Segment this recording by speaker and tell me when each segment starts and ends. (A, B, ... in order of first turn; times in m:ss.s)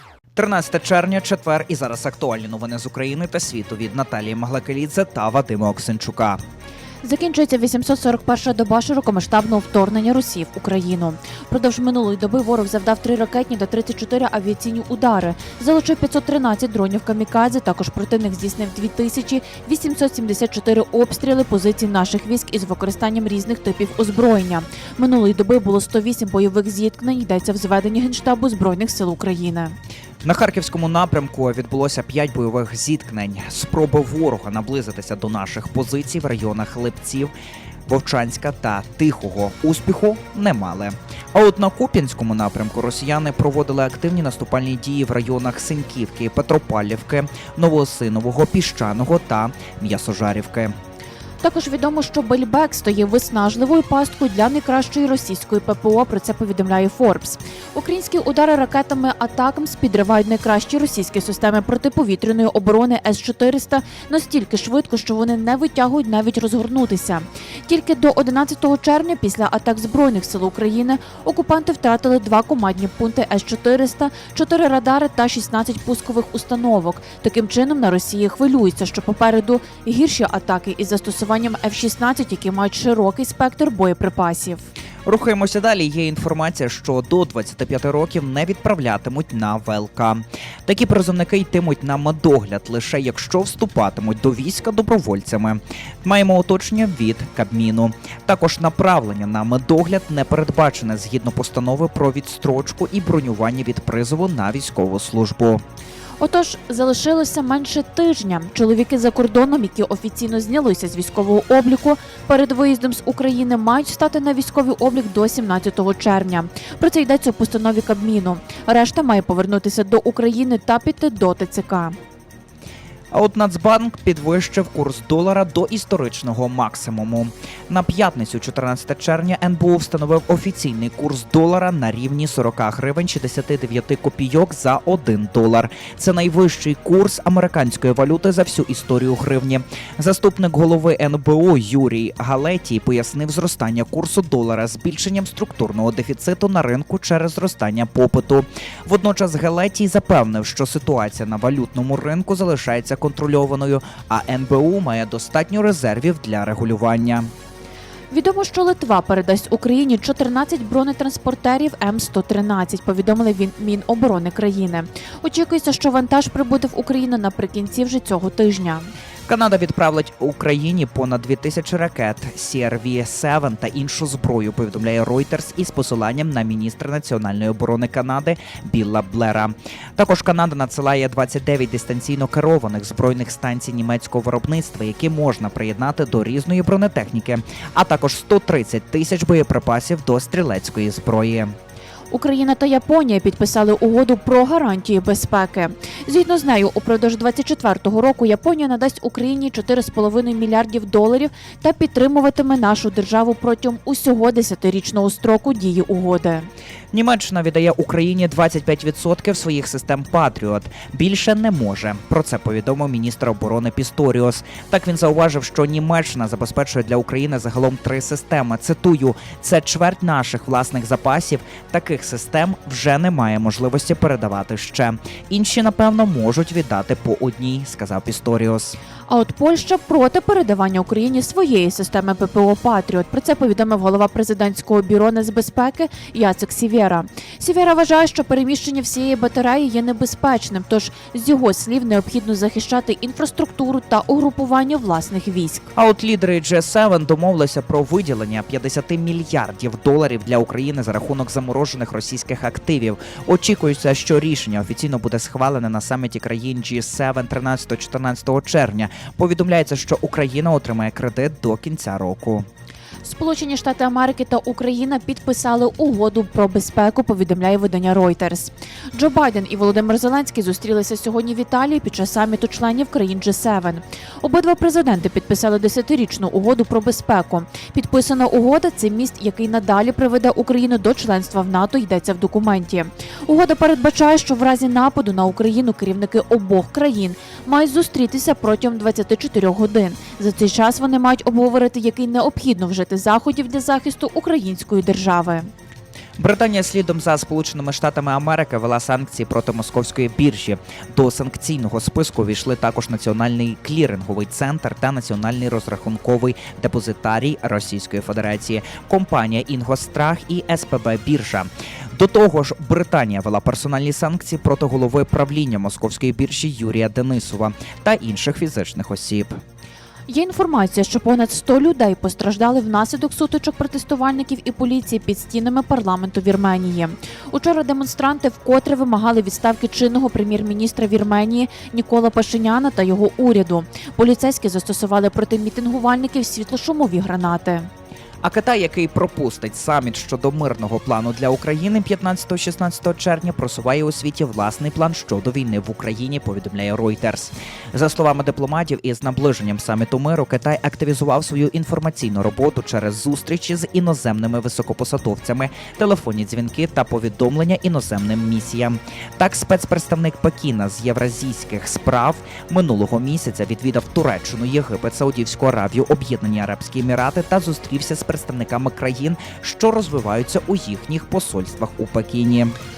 0:00.4-0:06.4 A
0:07.0-0:29.8 B
0:30.2-0:37.3 A
0:37.9-0:50.7 A
0:51.4-1:24.7 B
1:25.1-1:45.6 A
1:46.2-2:02.0 B
2:03.1-2:37.3 A
2:38.1-2:48.9 B
2:49.3-3:11.5 A
3:12.1-3:26.5 B
3:26.9-3:48.8 A
3:49.1-4:05.7 B
4:05.8-4:22.5 A
4:23.0-4:55.5 B
4:56.2-5:19.4 A
5:20.1-5:37.7 B
5:38.2-6:12.6 A